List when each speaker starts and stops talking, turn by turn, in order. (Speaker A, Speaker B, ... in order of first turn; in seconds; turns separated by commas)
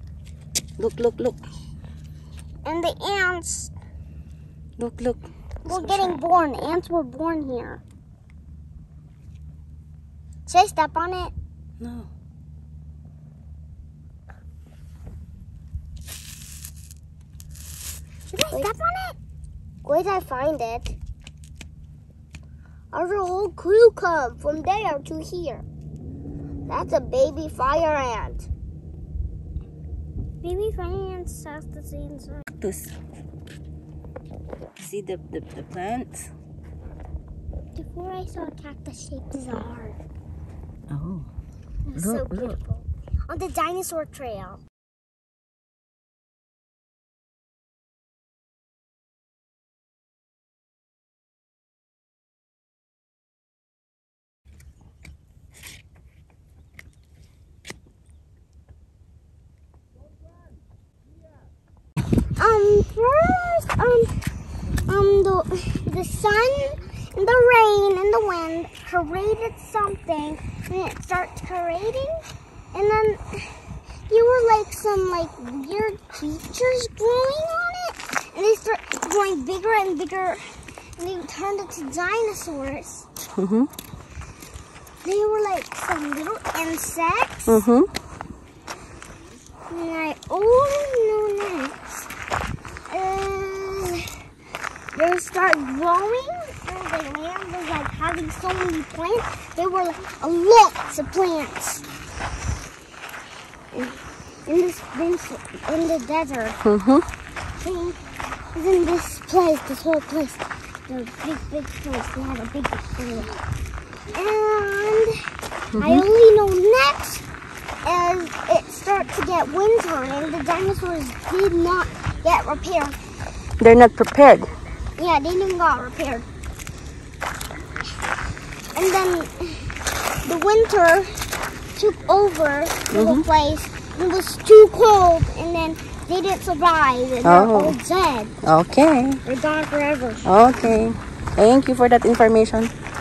Speaker A: 0.8-1.4, Speaker B: 2.6-3.7, Speaker A: 4.8-6.2, Speaker B: 5.7-7.8, Speaker B: 10.5-11.3, Speaker A: 11.8-12.1, Speaker B: 18.3-19.2, Speaker B: 19.9-20.9, Speaker B: 22.9-25.6, Speaker B: 26.7-28.5, Speaker B: 30.4-32.4, Speaker A: 32.6-32.9, Speaker A: 34.8-36.3, Speaker B: 37.8-40.0, Speaker A: 40.9-41.3, Speaker B: 41.9-44.6, Speaker A: 41.9-42.6, Speaker B: 62.4-64.1, Speaker B: 64.9-72.2, Speaker B: 72.7-73.6, Speaker B: 74.1-83.1, Speaker A: 83.4-83.7, Speaker B: 85.0-87.6, Speaker A: 87.5-87.9, Speaker B: 89.7-92.0, Speaker B: 92.9-94.2, Speaker B: 94.9-101.9, Speaker B: 103.7-106.6, Speaker A: 106.6-107.0, Speaker B: 107.6-108.0, Speaker B: 108.5-113.3, Speaker B: 114.1-115.1, Speaker A: 115.8-116.1, Speaker B: 115.8-117.2, Speaker B: 117.8-123.0, Speaker A: 123.6-124.5, Speaker B: 125.0-126.3, Speaker B: 128.8-129.7, Speaker B: 130.2-131.1, Speaker B: 131.8-138.3, Speaker A: 132.9-133.3, Speaker A: 137.2-137.8, Speaker A: 138.4-139.2, Speaker B: 139.2-140.4, Speaker A: 140.2-142.7